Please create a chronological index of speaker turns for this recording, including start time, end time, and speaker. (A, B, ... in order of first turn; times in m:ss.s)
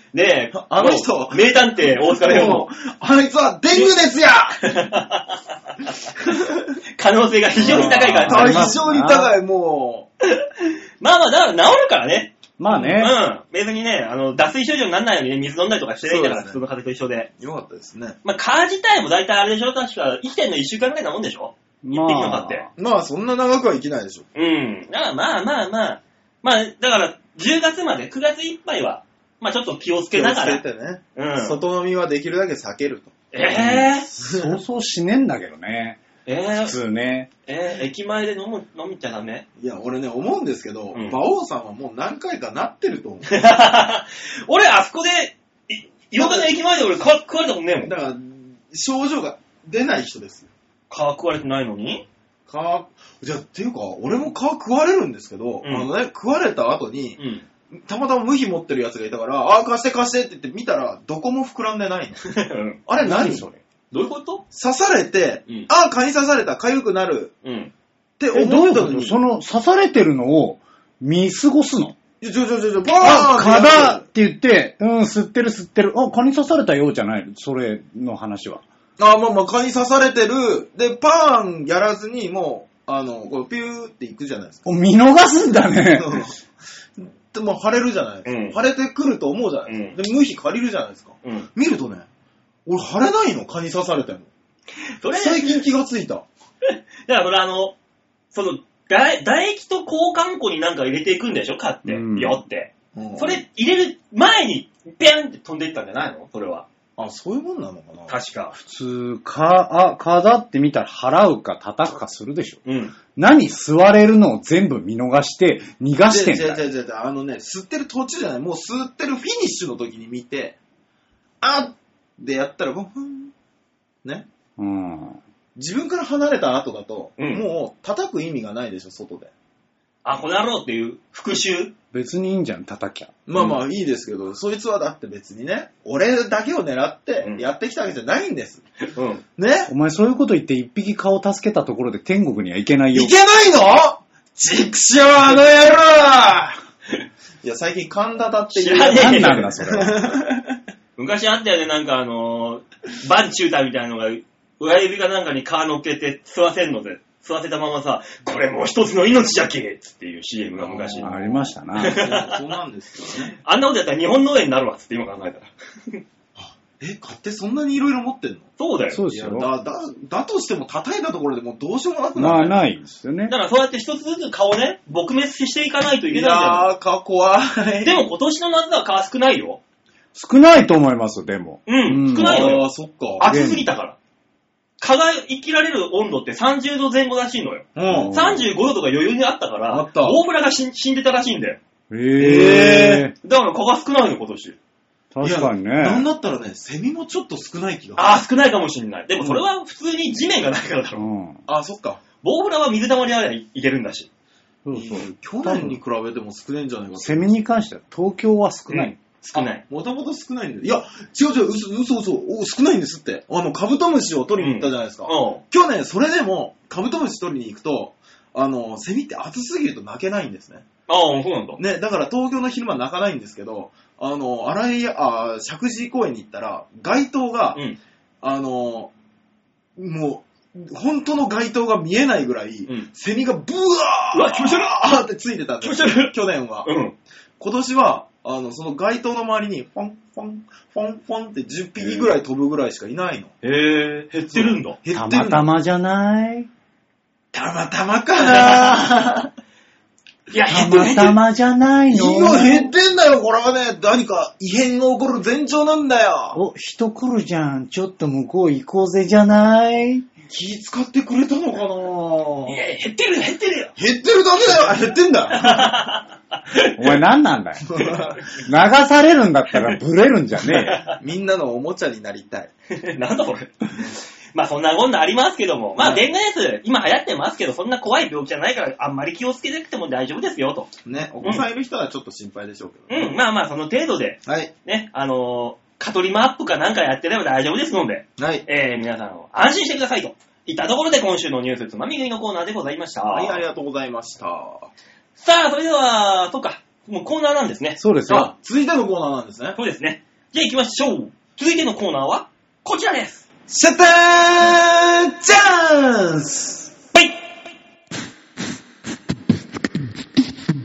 0:00.1-0:02.7 A
0:00.5-0:04.6 B
0:04.6-0:05.9 A
0:06.2-0:06.7 B
0:07.0-0:08.8 A
0:07.6-0:10.1 B
0:07.6-0:09.3 C
0:10.4-0:17.3 A
0:12.6-0:13.1 C
0:12.7-0:13.0 B
0:16.0-0:16.6 B
0:17.4-0:18.2 B
0:18.2-0:22.6 A
0:21.8-0:22.7 C
0:22.8-0:24.2 B
0:24.3-0:30.6 A
0:30.1-0:33.2 B
0:31.2-0:31.6 A
0:33.3-0:34.1 A
0:33.4-0:36.0 C
0:34.2-0:34.5 B
0:36.2-0:36.7 A
0:36.6-0:37.3 C
0:37.5-0:39.4 A
0:39.6-0:43.3 B
0:40.9-0:41.2 A
0:43.3-0:47.9 A
0:46.2-0:46.5 B
0:47.8-0:50.5 B
0:50.9-0:52.0 A
0:52.5-0:57.2 B
0:55.6-0:55.9 A
0:57.2-0:57.4 A
0:57.8-1:02.2 B
1:02.2-1:02.8 A
1:02.9-1:03.4 B
1:03.0-1:03.6 C
1:03.9-1:04.4 A
1:04.5-1:07.3 B
1:07.4-1:07.7 A
1:08.2-1:09.2 B
1:08.3-1:12.0 C
1:12.2-1:14.0 B
1:13.0-1:18.6 C
1:19.0-1:24.6 B
1:24.6-1:26.3 C
1:25.9-1:26.4 B
1:27.0-1:32.0 B
1:28.2-1:28.6 A
1:29.7-1:30.0 A
1:31.2-1:31.5 A
1:32.6-1:34.3 B
1:35.0-1:35.6 A
1:35.1-1:36.2 B
1:36.7-1:37.7 A
1:38.3-1:46.7 A
1:41.8-1:42.4 C
1:42.9-1:43.4 B
1:47.0-1:48.1 B
1:48.1-1:48.5 A
1:48.5-1:52.6 C
1:52.6-1:52.9 A
1:53.1-1:56.6 C
1:56.1-2:00.6 B
2:01.4-2:03.3 B
2:04.6-2:05.2 C
2:05.6-2:09.3 B
2:07.2-2:07.4 A
2:10.0-2:11.7 A
2:11.9-2:13.6 C
2:13.2-2:18.6 B
2:18.9-2:19.2 A
2:19.4-2:19.7 B
2:19.7-2:23.1 C
2:22.9-2:26.6 B
2:27.4-2:30.6 B
2:28.5-2:29.4 A
2:28.9-2:30.0 C
2:31.0-2:41.2 A
2:40.6-2:43.4 B
2:41.0-2:42.0 C
2:41.8-2:42.4 A
2:43.4-2:46.0 A
2:46.4-2:48.5 B
2:48.6-2:49.0 A
2:48.9-2:49.5 C
2:49.1-2:52.5 B
2:52.1-2:53.3 C
2:53.3-2:56.7 A
2:56.1-2:58.0 B
2:57.8-2:59.6 A
3:00.1-3:02.5 C
3:01.6-3:02.7 A
3:02.1-3:03.3 B
3:03.2-3:04.0 A
3:03.2-3:03.7 C
3:04.8-3:11.6 A
3:07.7-3:08.2 B
3:07.9-3:08.4 C
3:09.7-3:10.2 B
3:11.9-3:13.1 C
3:12.2-3:13.0 B
3:13.2-3:14.6 A
3:15.1-3:16.0 C
3:15.2-3:18.2 B
3:18.0-3:21.0 A
3:21.0-3:21.4 C
3:21.5-3:22.0 B
3:22.2-3:24.1 A
3:24.6-3:25.8 C
3:24.7-3:27.3 B
3:27.0-3:28.9 C
3:28.7-3:29.6 A
3:29.3-3:40.6 B
3:34.4-3:35.4 A
3:40.9-3:41.6 A
3:41.6-3:47.6 B
3:48.2-3:48.9 B
3:49.8-3:56.7 B
3:54.1-3:54.8 A
3:55.6-3:56.1 A
3:56.6-3:56.9 A
3:57.4-4:03.3 B
4:03.4-4:04.8 A
4:04.3-4:05.5 B
4:04.9-4:06.5 C
4:07.3-4:09.3 B
4:08.2-4:09.2 A
4:10.3-4:11.2 A
4:10.5-4:12.7 C
4:11.9-4:16.4 B
4:16.3-4:20.1 C
4:20.3-4:22.6 B
4:22.5-4:23.7 A
4:23.8-4:25.7 B
4:25.3-4:27.0 A
4:26.8-4:27.7 C
4:27.6-4:28.2 B
4:28.3-4:30.8 C
4:30.4-4:31.0 A
4:31.0-4:32.5 B
4:32.7-4:41.4 A
4:35.8-4:36.0 B
4:40.8-4:43.2 B
4:42.9-4:53.4 A
4:44.2-4:44.5 B
4:48.2-4:48.4 B
4:53.1-4:54.7 B
4:55.2-4:57.8 A
4:57.8-4:58.3 C
4:58.1-4:59.6 B
4:59.6-5:03.2 A
5:03.5-5:06.6 B